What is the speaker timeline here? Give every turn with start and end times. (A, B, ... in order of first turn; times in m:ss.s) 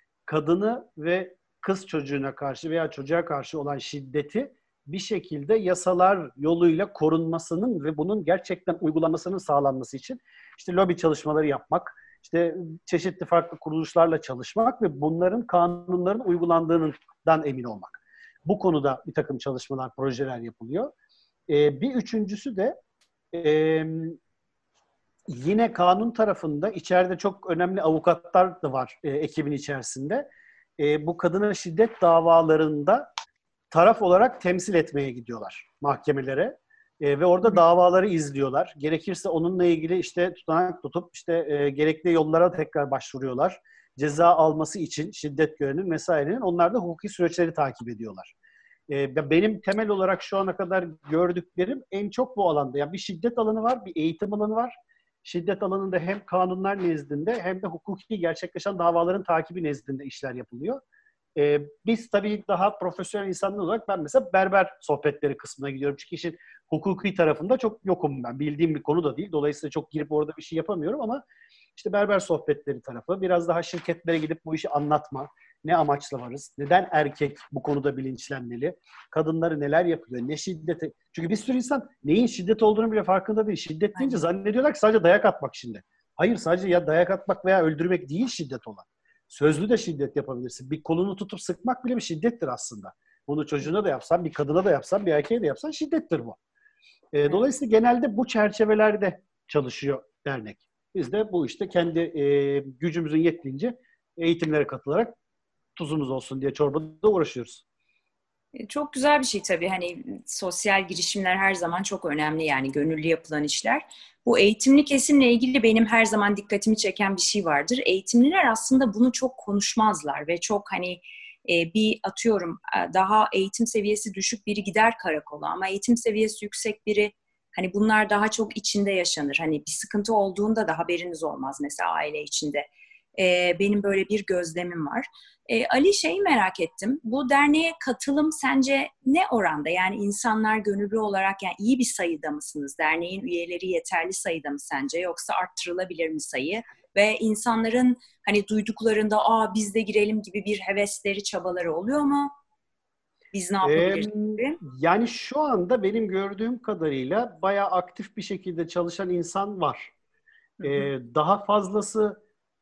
0:00.3-0:20.9 A
0:21.5-0:22.8 A
0:23.3-0:24.2 A
0:25.3-0:30.3 A
0:30.8-0:33.1 A
0:33.7-0:48.3 A
0:48.9-1:00.8 A
1:01.4-1:11.2 A
1:11.8-1:36.4 A
1:24.0-1:24.2 B
1:37.1-1:45.2 A
1:45.8-1:47.6 A
1:48.6-2:32.3 B
2:33.3-2:34.6 B
2:33.6-2:39.9 A
2:40.6-2:40.9 B
2:40.6-2:42.2 A